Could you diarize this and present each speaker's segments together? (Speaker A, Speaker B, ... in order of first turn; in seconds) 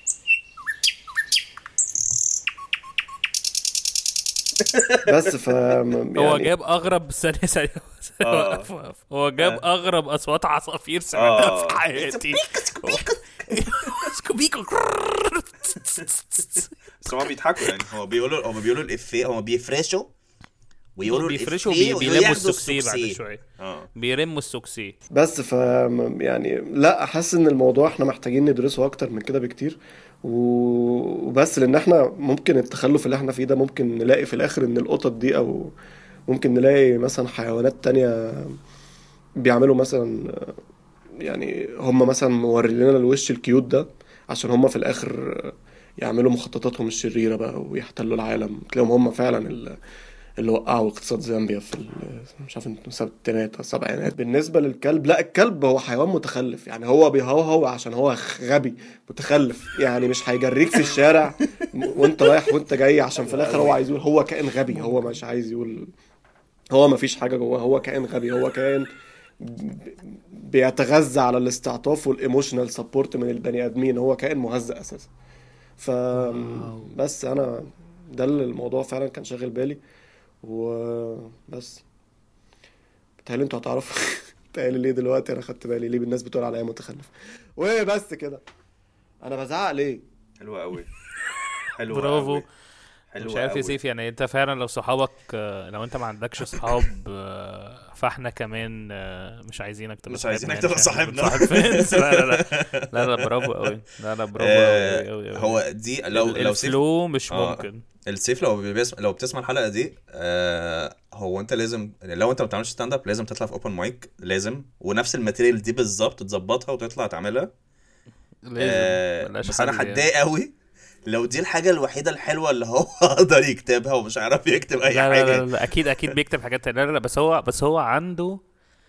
Speaker A: 4.6-5.2, 8.2-8.7, 11.1-13.4, 17.0-20.1, 21.0-23.9, 63.3-63.7, 90.4-90.9, 91.7-92.5, 93.1-93.8, 100.1-103.3, 104.4-117.5, 118.6-120.5, 121.1-125.5
Speaker B: 5.1-6.5, 25.1-35.7, 36.3-38.6, 39.4-40.6, 41.2-49.8, 50.4-65.9, 66.7-68.9, 69.4-75.1, 75.8-79.8, 80.4-81.8, 83.2-88.4, 89.2-90.0
Speaker C: 6.2-16.7, 21.1-23.4, 24.0-24.9, 64.7-65.2, 76.1-76.9, 91.9-92.5, 93.2-105.6, 106.1-107.8, 118.5-120.1, 124.9-128.4